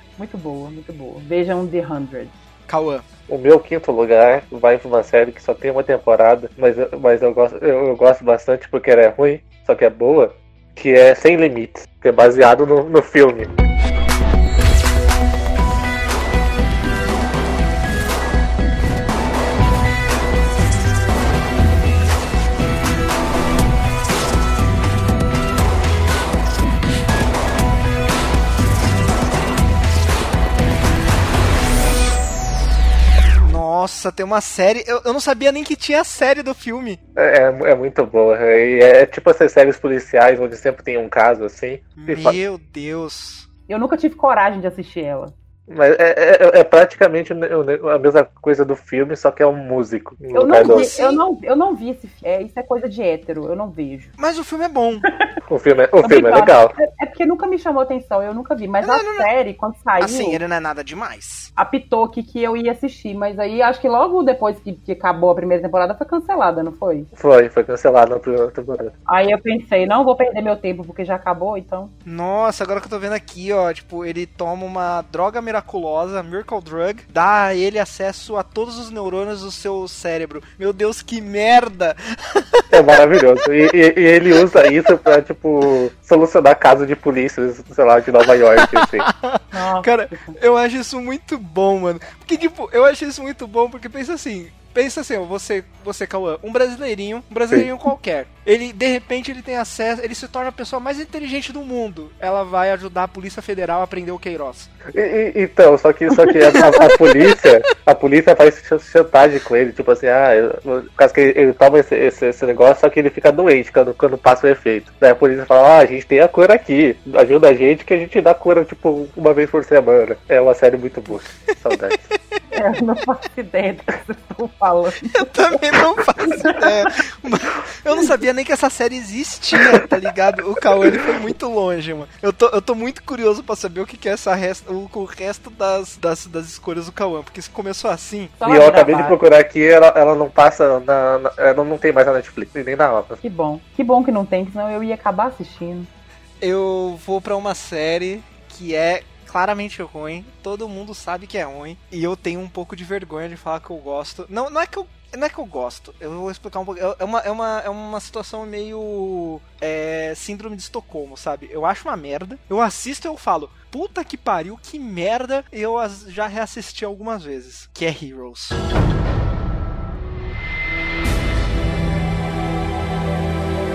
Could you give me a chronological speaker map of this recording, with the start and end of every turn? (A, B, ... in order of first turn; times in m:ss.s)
0:00.2-0:02.3 A
0:02.7-0:03.0 B
0:03.3-0:13.5 C
0:33.4-0:37.0 B
0:37.2-0:42.4 C
0:42.0-0:43.5 B
0:43.7-0:45.3 A
0:45.7-0:50.9 C
0:50.3-0:54.1 A
0:50.6-0:51.2 B
0:54.2-0:55.0 B
0:55.5-0:56.8 C
0:56.0-1:00.4 A
0:58.8-0:59.3 B
1:00.0-1:01.5 B
1:01.6-1:07.1 A
1:07.2-1:08.9 C
1:09.0-1:11.9 A
1:12.0-1:23.1 B
1:22.7-1:29.0 C
1:28.6-1:44.7 B
1:29.5-1:30.4 A
1:44.9-2:02.0 C
1:46.5-1:46.9 A
2:01.5-2:02.4 B
2:02.5-2:05.1 A
2:05.0-2:18.3 B
2:06.3-2:07.0 A
2:18.4-2:19.2 A
2:18.4-2:23.2 C
2:23.2-2:25.9 A
2:26.4-2:48.6 B